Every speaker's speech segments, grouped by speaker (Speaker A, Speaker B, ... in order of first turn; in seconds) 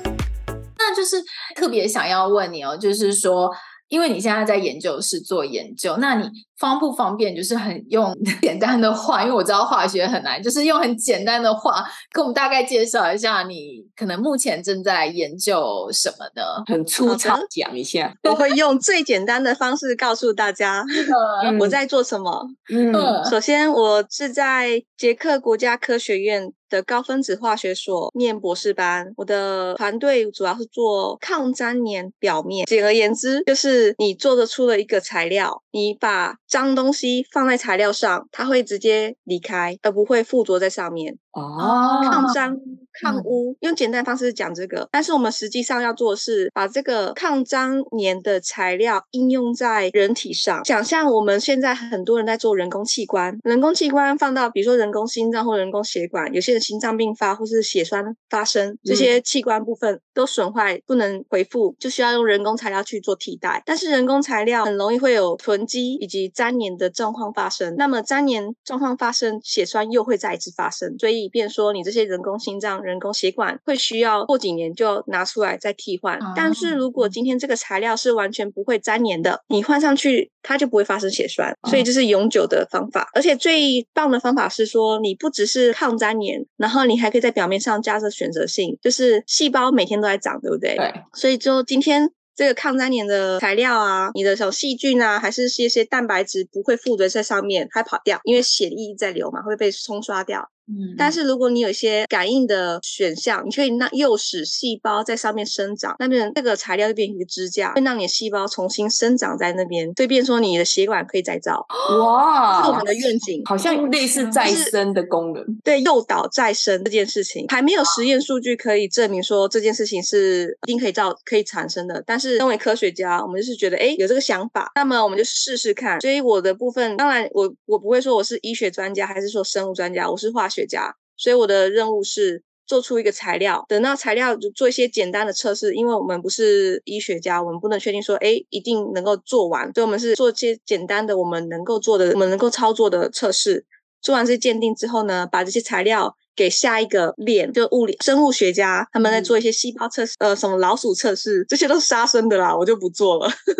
Speaker A: 0.8-16.6, 21.1-21.6, 22.9-23.3, 41.6-42.3, 43.0-43.3, 76.2-77.1, 100.7-101.2, 113.6-114.5
Speaker B: 16.7-18.2, 21.4-21.8, 22.7-23.2, 41.4-42.3, 111.9-112.8, 113.5-115.5
Speaker C: 17.0-17.5, 18.2-20.9, 21.6-22.5, 23.2-41.2, 42.0-111.7, 112.5-113.6, 114.4-114.7, 115.6-153.3